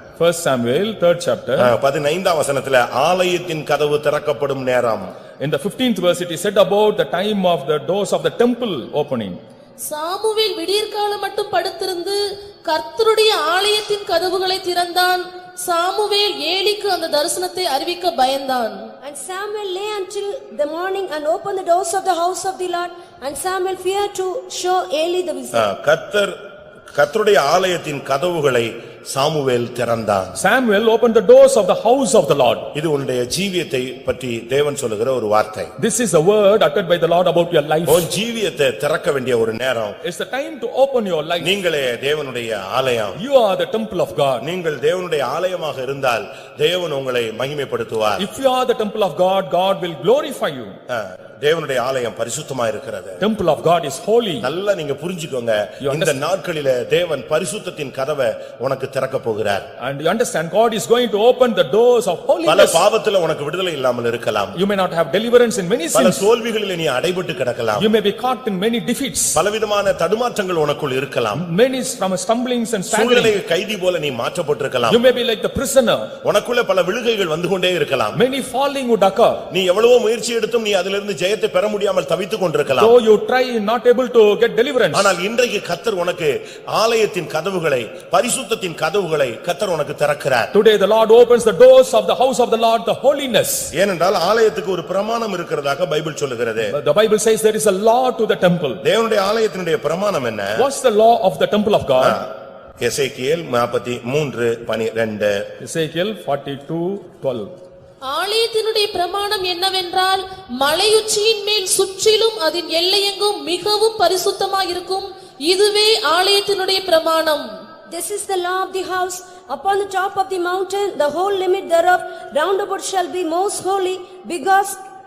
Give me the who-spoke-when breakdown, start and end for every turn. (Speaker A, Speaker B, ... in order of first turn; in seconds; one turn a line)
Speaker A: 0.2-1.7
Speaker B: 1.6-5.1
Speaker A: 5.4-9.4
Speaker C: 9.8-18.9
Speaker D: 19.0-25.7
Speaker B: 25.5-26.3
Speaker B: 26.9-30.3
Speaker A: 30.4-32.7
Speaker B: 32.8-35.7
Speaker A: 35.8-38.1
Speaker B: 37.9-40.0
Speaker A: 40.0-41.5
Speaker B: 41.4-43.2
Speaker A: 43.2-44.4
Speaker B: 44.4-48.2
Speaker A: 48.2-50.8
Speaker B: 50.9-53.2
Speaker A: 53.2-54.5
Speaker B: 54.4-59.7
Speaker A: 55.8-56.2
Speaker A: 59.8-62.8
Speaker B: 62.5-64.5
Speaker A: 64.6-66.3
Speaker B: 65.9-67.9
Speaker A: 67.8-69.4
Speaker B: 69.3-71.4
Speaker A: 71.3-73.3
Speaker B: 72.9-75.0
Speaker A: 74.9-76.1
Speaker B: 76.2-78.2
Speaker A: 78.1-79.4
Speaker B: 79.5-83.0
Speaker A: 82.8-85.2
Speaker B: 84.9-90.5
Speaker A: 90.5-93.7
Speaker B: 93.7-96.7
Speaker A: 96.6-98.8
Speaker B: 98.8-100.6
Speaker A: 100.6-102.2
Speaker B: 102.8-105.4
Speaker A: 105.6-107.5
Speaker C: 108.0-117.5
Speaker D: 117.9-124.8